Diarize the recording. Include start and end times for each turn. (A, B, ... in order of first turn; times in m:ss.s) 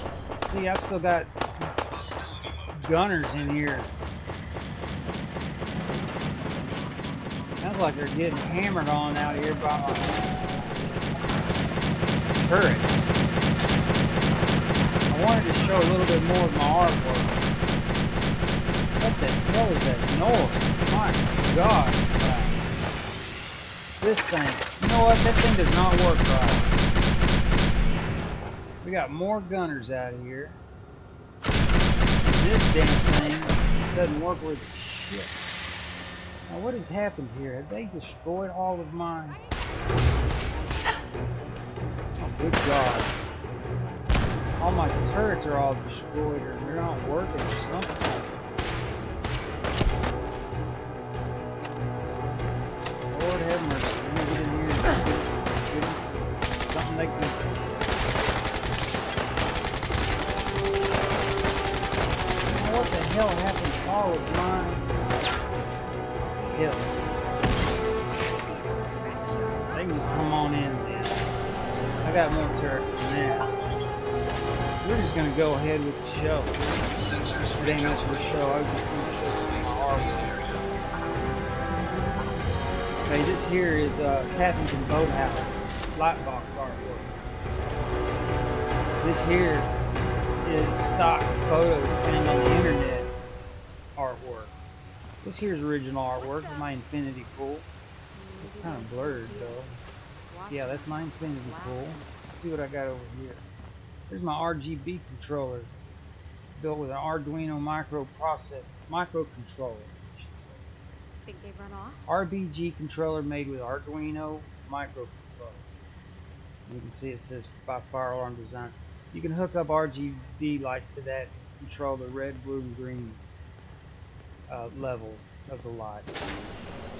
0:00.3-0:01.4 A
0:02.8-0:03.9 A
0:07.5-0:11.0 A
0:12.3-0:13.1 A
0:15.1-0:17.4 A
0:19.0-0:22.6 A
0:24.0-0:26.8 A
0:28.8-0:30.6 A
0:32.2-0:35.4 A
0:36.5-0:39.4 A
0:42.2-0:43.1 A
0:44.6-0:48.3 A
0:53.1-0:57.4 A
1:02.4-1:05.1 A
1:06.2-1:07.0 A
1:08.4-1:10.4 B
1:09.7-1:11.3 A
1:12.0-1:13.5 A
1:14.8-1:16.6 A
1:17.5-1:20.5 A
1:23.1-1:27.1 A
1:29.0-1:29.7 A
1:30.4-1:33.1 A
1:34.0-1:34.6 A
1:35.2-1:37.7 A
1:36.2-1:36.7 B
1:38.1-1:39.7 B
1:38.4-1:39.8 A
1:40.3-1:42.1 B
1:40.5-1:43.4 A
1:44.1-1:45.7 A
1:46.5-1:50.6 A
1:51.3-1:52.0 B
1:52.1-1:55.6 A
1:56.7-2:03.2 A
2:04.5-2:06.1 A